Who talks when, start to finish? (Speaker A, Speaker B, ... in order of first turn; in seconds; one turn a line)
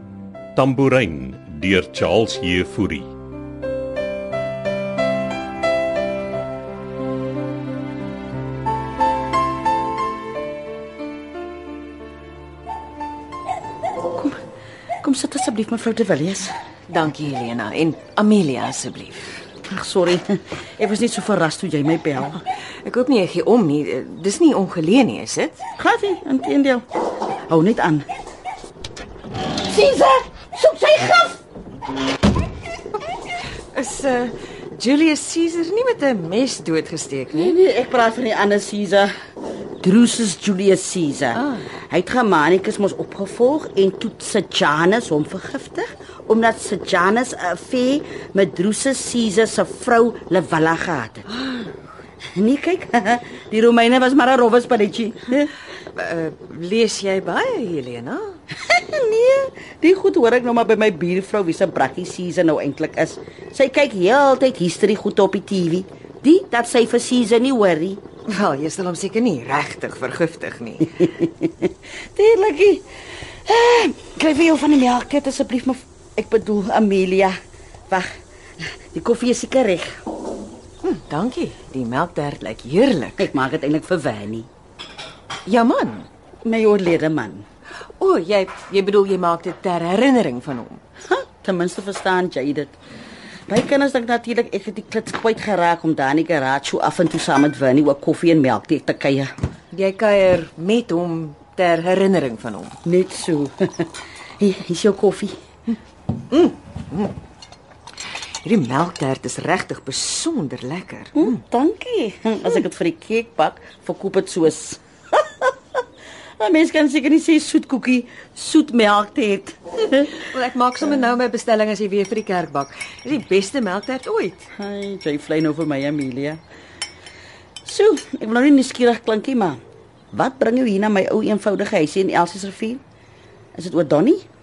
Speaker A: 0.6-3.1
Speaker B: 15.0-16.5
Speaker C: 16.9-19.4
Speaker B: 19.7-22.4
Speaker C: 22.8-25.6
Speaker B: 25.8-26.8
Speaker B: 27.5-28.1
Speaker B: 29.6-31.4
Speaker C: 33.7-37.6
Speaker B: 37.3-39.1
Speaker B: 39.8-51.2
Speaker C: 41.3-41.6
Speaker C: 51.3-51.7
Speaker B: 52.3-55.5
Speaker C: 55.9-58.4
Speaker B: 58.5-68.0
Speaker C: 68.3-71.1
Speaker B: 71.0-72.8
Speaker B: 73.4-77.3
Speaker B: 77.9-80.0
Speaker C: 80.8-83.3
Speaker B: 83.2-84.5
Speaker C: 85.5-86.1
Speaker B: 86.4-87.5
Speaker C: 88.0-90.8
Speaker B: 91.1-92.7
Speaker B: 93.5-99.3
Speaker C: 99.7-102.8
Speaker B: 102.8-105.3
Speaker C: 106.3-107.1
Speaker C: 108.4-111.4
Speaker B: 111.1-115.5
Speaker B: 116.4-120.2
Speaker C: 120.1-124.5
Speaker B: 124.5-126.4
Speaker B: 127.6-129.6
Speaker B: 130.1-132.8
Speaker B: 133.6-134.2